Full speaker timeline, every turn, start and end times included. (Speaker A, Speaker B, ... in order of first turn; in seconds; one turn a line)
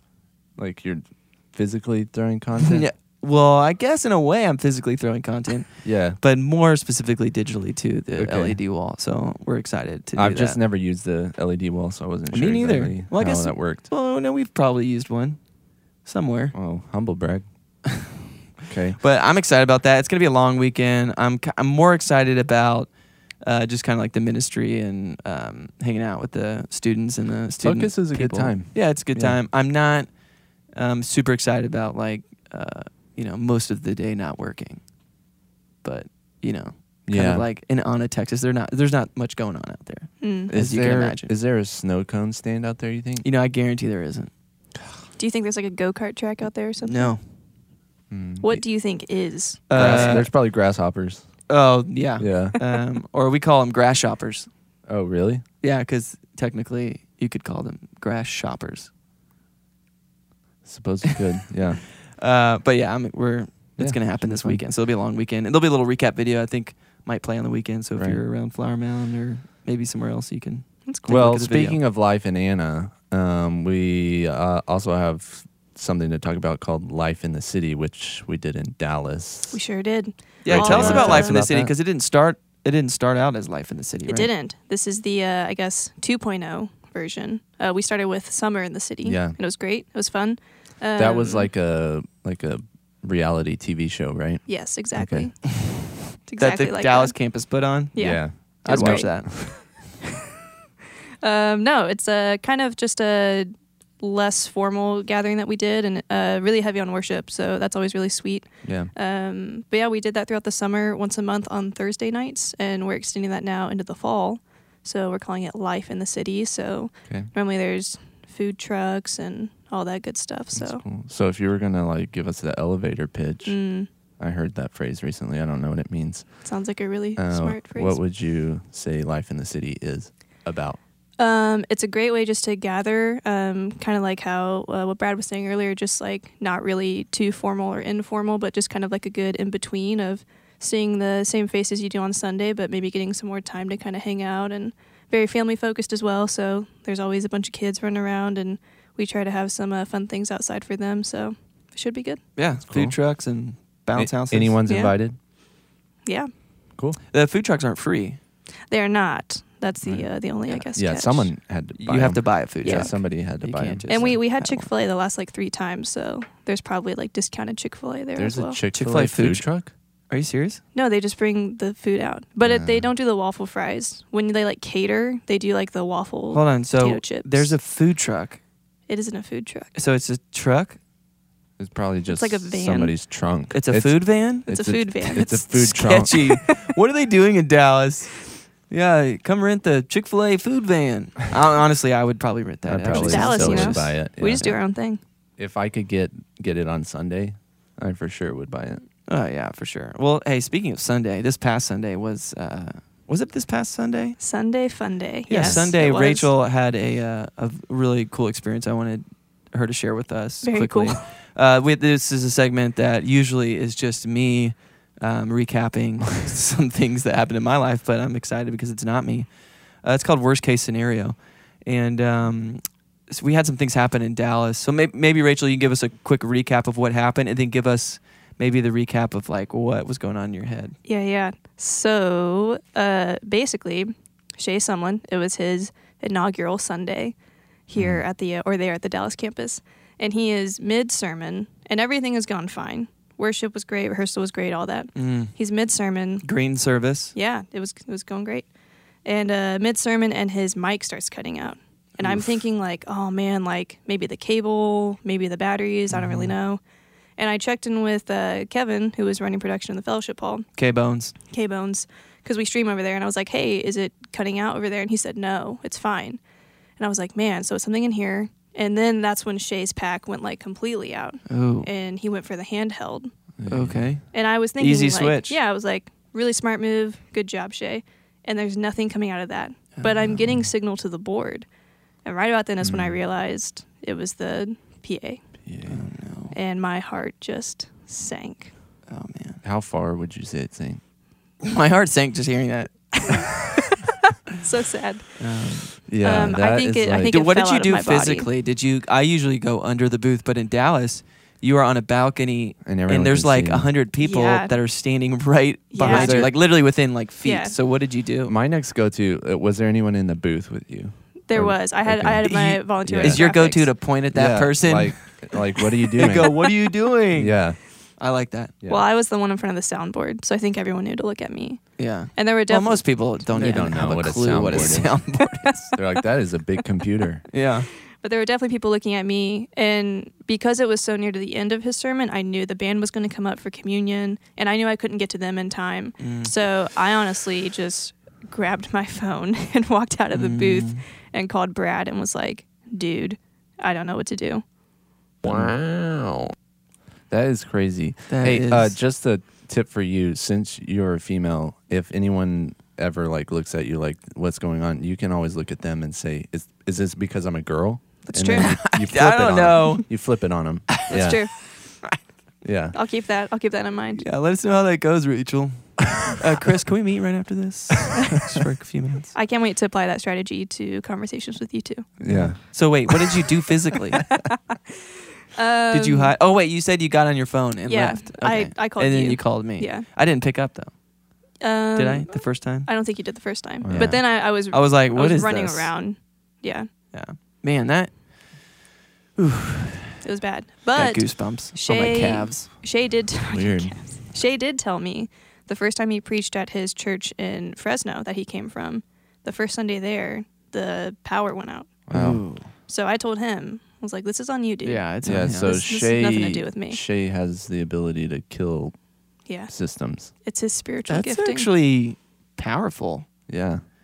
Speaker A: 0.6-2.9
Speaker B: 2.6-10.6
Speaker A: 5.8-6.2
Speaker A: 8.2-8.6
Speaker A: 10.2-13.8
Speaker B: 12.3-15.4
Speaker B: 16.0-16.5
Speaker A: 16.5-17.4
Speaker B: 17.9-18.2
Speaker A: 18.7-19.0
Speaker B: 19.0-22.9
Speaker B: 23.4-30.1
Speaker A: 27.6-29.4
Speaker B: 30.7-34.8
Speaker B: 35.8-41.3
Speaker A: 37.0-37.4
Speaker C: 40.2-40.5
Speaker A: 40.5-43.2
Speaker B: 43.2-44.3
Speaker C: 45.2-47.1
Speaker B: 46.8-47.2
Speaker A: 48.1-48.6
Speaker C: 48.4-50.1
Speaker B: 49.7-50.3
Speaker A: 49.8-51.2
Speaker B: 51.5-54.5
Speaker A: 52.2-52.5
Speaker A: 54.9-55.4
Speaker B: 55.6-58.9
Speaker A: 60.6-61.8
Speaker B: 62.1-71.8
Speaker A: 63.8-64.6
Speaker C: 70.9-71.2
Speaker A: 71.1-79.6
Speaker C: 79.5-81.4
Speaker B: 80.4-84.3
Speaker A: 80.5-81.7
Speaker C: 84.1-91.5
Speaker A: 89.0-89.3
Speaker A: 91.0-95.3
Speaker C: 94.5-95.5
Speaker C: 96.3-97.1
Speaker B: 96.4-98.0
Speaker C: 97.9-99.5
Speaker A: 98.0-99.5
Speaker B: 98.6-99.6
Speaker C: 101.2-120.8
Speaker A: 108.6-108.9
Speaker A: 120.5-123.6
Speaker C: 123.4-123.9
Speaker A: 124.2-126.4
Speaker C: 126.4-128.0
Speaker A: 127.2-130.8
Speaker C: 131.2-152.2
Speaker B: 152.3-154.6
Speaker A: 152.7-153.0
Speaker A: 153.9-155.2
Speaker C: 154.7-154.9
Speaker B: 157.1-158.2
Speaker C: 158.7-161.3
Speaker A: 160.7-164.1
Speaker B: 161.8-164.7
Speaker C: 162.6-162.9
Speaker C: 163.9-168.6
Speaker A: 168.2-169.7
Speaker B: 168.7-169.5
Speaker B: 170.1-170.6
Speaker C: 170.7-177.5
Speaker A: 172.4-172.9
Speaker B: 176.3-178.4
Speaker C: 178.9-179.7
Speaker B: 179.7-180.8
Speaker A: 181.6-186.2
Speaker C: 182.1-182.9
Speaker B: 183.5-184.5
Speaker C: 184.5-186.6
Speaker B: 185.6-194.6
Speaker A: 192.7-194.5
Speaker C: 192.9-195.0
Speaker A: 195.4-198.8
Speaker B: 199.1-204.2
Speaker C: 204.2-206.3
Speaker B: 205.3-219.3
Speaker A: 205.3-205.7
Speaker C: 210.4-211.0
Speaker B: 219.8-230.8
Speaker C: 230.9-237.1
Speaker C: 237.7-246.2
Speaker A: 237.8-238.0
Speaker B: 244.9-245.3
Speaker B: 246.2-247.1
Speaker C: 247.1-248.5
Speaker C: 249.1-256.6
Speaker B: 252.0-252.3
Speaker B: 255.9-256.3
Speaker C: 257.2-260.4
Speaker B: 260.6-261.1
Speaker C: 261.3-266.2
Speaker C: 266.8-273.1
Speaker B: 271.3-271.7
Speaker A: 273.4-273.9
Speaker B: 273.5-274.0
Speaker C: 274.1-281.4
Speaker B: 274.6-275.4
Speaker B: 279.8-280.1
Speaker C: 282.1-285.2
Speaker A: 282.6-283.0
Speaker A: 285.4-285.8
Speaker B: 285.7-286.4
Speaker C: 286.3-288.5
Speaker B: 288.9-289.4
Speaker A: 289.4-290.8
Speaker B: 291.4-293.3
Speaker C: 293.1-293.3
Speaker C: 294.3-295.2
Speaker B: 295.2-295.7
Speaker A: 295.9-297.1
Speaker C: 296.0-298.3
Speaker B: 297.1-308.3
Speaker A: 302.6-303.7
Speaker C: 304.0-304.5
Speaker C: 305.7-306.3
Speaker A: 305.8-306.3
Speaker C: 307.2-307.6
Speaker A: 308.3-313.2
Speaker C: 311.3-313.7
Speaker B: 312.2-315.3
Speaker A: 314.1-316.5
Speaker B: 315.9-317.3
Speaker A: 317.1-317.6
Speaker B: 318.0-318.5
Speaker C: 318.7-321.6
Speaker B: 321.8-325.7
Speaker C: 322.1-322.9
Speaker A: 323.3-325.0
Speaker A: 325.7-327.2
Speaker B: 327.3-327.7
Speaker C: 328.0-344.4
Speaker B: 336.0-336.3
Speaker B: 340.1-340.8
Speaker A: 345.2-346.2
Speaker A: 347.1-361.2
Speaker B: 348.1-348.8
Speaker C: 358.1-358.6
Speaker B: 358.4-359.9
Speaker B: 360.8-361.2
Speaker C: 360.9-361.4
Speaker A: 362.4-362.8
Speaker C: 362.7-364.0
Speaker B: 363.9-369.1
Speaker C: 369.1-371.9
Speaker A: 372.0-372.4
Speaker B: 372.0-374.1
Speaker C: 374.1-374.4
Speaker C: 375.3-376.1
Speaker B: 375.7-380.7
Speaker C: 377.7-379.8
Speaker C: 381.4-386.7
Speaker B: 381.7-382.7
Speaker A: 383.6-383.9
Speaker B: 383.7-385.7
Speaker B: 386.9-388.0
Speaker B: 389.2-389.9
Speaker C: 390.0-401.7
Speaker B: 390.7-392.5
Speaker A: 393.3-393.8
Speaker A: 401.9-402.3
Speaker B: 401.9-402.5
Speaker C: 402.7-406.8
Speaker B: 404.6-405.6
Speaker A: 405.0-408.7
Speaker C: 409.3-409.5
Speaker A: 409.5-410.1
Speaker C: 410.2-411.5
Speaker B: 410.9-413.1
Speaker A: 413.3-413.6